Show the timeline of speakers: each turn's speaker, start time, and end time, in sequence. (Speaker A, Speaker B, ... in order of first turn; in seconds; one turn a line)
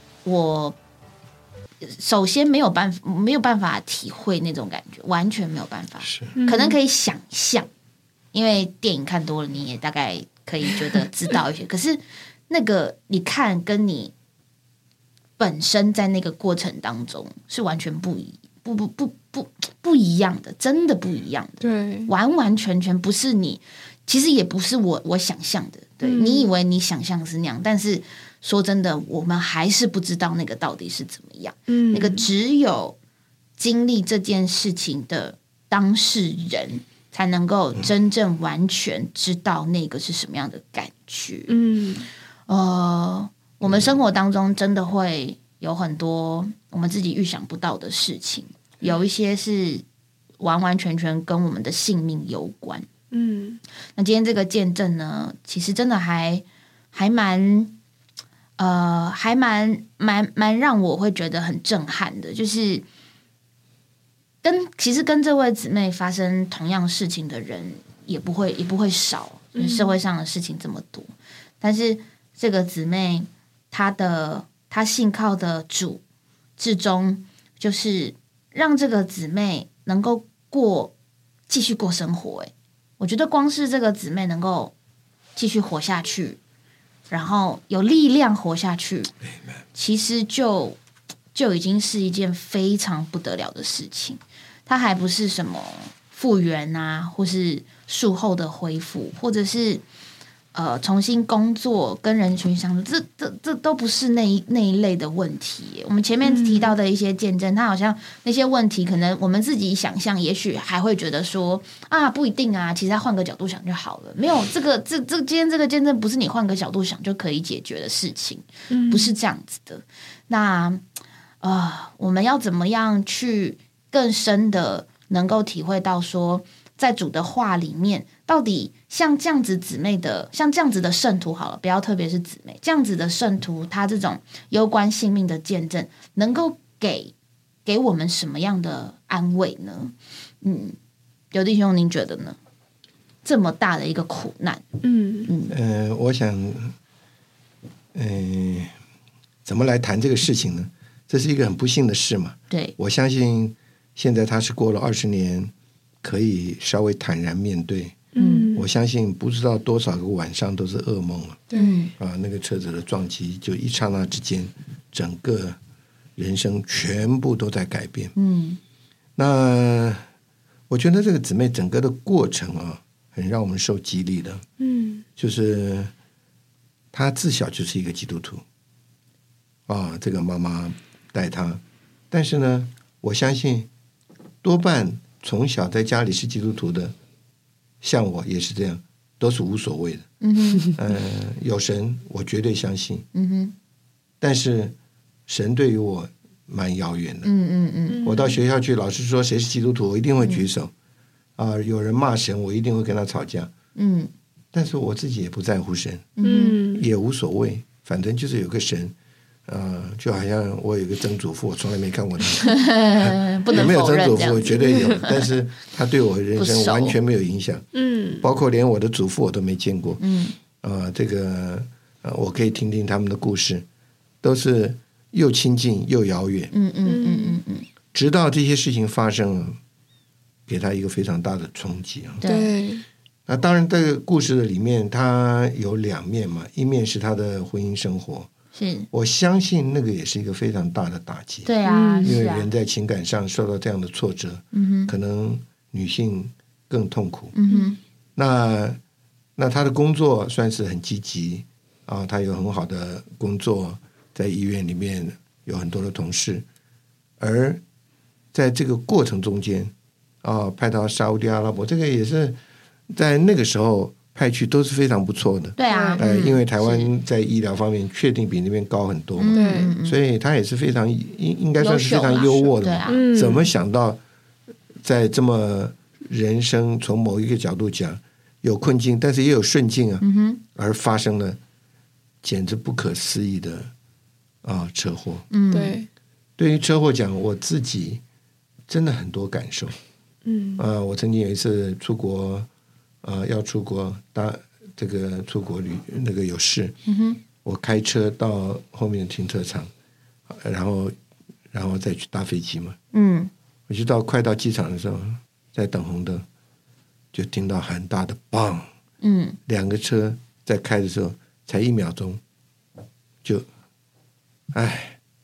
Speaker A: 0.2-0.8
Speaker A: 1.8-7.7
Speaker B: 6.0-6.3
Speaker C: 6.3-6.8
Speaker A: 8.3-14.1
Speaker A: 15.4-33.0
Speaker C: 21.6-22.1
Speaker C: 26.0-26.5
Speaker C: 31.7-32.3
Speaker A: 33.6-41.5
Speaker C: 41.5-42.1
Speaker A: 42.5-49.8
Speaker A: 50.4-52.9
Speaker C: 53.1-53.6
Speaker A: 54.0-57.7
Speaker A: 58.6-62.9
Speaker A: 64.4-76.0
Speaker C: 69.5-70.0
Speaker A: 76.6-80.9
Speaker A: 81.5-84.7
Speaker A: 85.3-86.4
Speaker A: 87.1-89.1
Speaker A: 89.7-90.8
Speaker A: 91.3-99.8
Speaker A: 100.5-120.8
Speaker C: 106.2-106.8
Speaker C: 118.7-119.2
Speaker A: 121.4-137.1
Speaker A: 137.6-140.8
Speaker A: 141.3-142.4
Speaker A: 143.2-144.6
Speaker C: 144.8-145.3
Speaker A: 145.2-145.5
Speaker B: 145.5-146.7
Speaker B: 147.9-148.7
Speaker B: 149.4-155.5
Speaker B: 156.0-161.4
Speaker C: 158.1-158.6
Speaker A: 158.2-158.5
Speaker C: 161.5-161.9
Speaker A: 161.5-161.9
Speaker B: 162.0-165.6
Speaker B: 166.2-168.1
Speaker A: 168.2-168.6
Speaker B: 169.2-170.0
Speaker B: 170.7-174.4
Speaker C: 174.6-175.0
Speaker B: 175.2-175.9
Speaker B: 176.9-178.4
Speaker B: 179.7-183.7
Speaker B: 184.4-186.9
Speaker B: 187.8-190.1
Speaker A: 190.2-190.7
Speaker B: 190.7-193.1
Speaker A: 193.1-193.5
Speaker B: 194.2-194.8
Speaker B: 195.3-197.3
Speaker A: 197.2-198.0
Speaker C: 197.9-198.4
Speaker B: 198.0-200.7
Speaker A: 200.2-200.4
Speaker B: 201.4-203.5
Speaker A: 203.8-204.1
Speaker B: 204.5-206.2
Speaker A: 206.2-206.6
Speaker C: 206.2-206.9
Speaker B: 206.7-208.9
Speaker B: 209.4-217.7
Speaker A: 212.4-215.2
Speaker C: 214.6-215.0
Speaker A: 216.4-217.0
Speaker C: 217.7-218.3
Speaker B: 218.2-220.0
Speaker A: 220.0-220.4
Speaker B: 220.6-223.7
Speaker B: 224.2-226.5
Speaker A: 226.5-227.7
Speaker C: 226.8-227.4
Speaker B: 227.9-229.6
Speaker B: 230.5-232.2
Speaker A: 232.2-232.5
Speaker C: 232.2-232.8
Speaker B: 233.3-238.3
Speaker A: 238.5-238.9
Speaker B: 238.9-247.3
Speaker A: 241.4-242.5
Speaker C: 241.6-242.2
Speaker A: 244.5-244.9
Speaker A: 247.3-247.8
Speaker B: 248.2-248.8
Speaker B: 249.4-256.4
Speaker B: 257.2-257.6
Speaker B: 258.3-262.4
Speaker B: 262.9-274.0
Speaker A: 265.6-266.9
Speaker C: 265.6-266.3
Speaker A: 269.2-270.0
Speaker C: 269.3-269.8
Speaker A: 271.6-273.0
Speaker C: 272.9-273.5
Speaker B: 274.8-281.4
Speaker A: 280.0-280.4
Speaker B: 282.2-283.7
Speaker B: 284.4-285.3
Speaker A: 285.3-285.8
Speaker C: 285.5-285.9
Speaker B: 286.4-288.0
Speaker B: 288.7-289.8
Speaker C: 290.2-290.6
Speaker B: 290.6-292.5
Speaker B: 293.0-296.8
Speaker A: 296.9-297.2
Speaker B: 297.4-299.7
Speaker B: 300.3-300.9
Speaker B: 301.5-302.8
Speaker A: 302.9-303.3
Speaker B: 303.7-306.2
Speaker B: 307.1-308.7
Speaker A: 309.0-309.4
Speaker B: 309.5-312.2
Speaker B: 314.5-315.0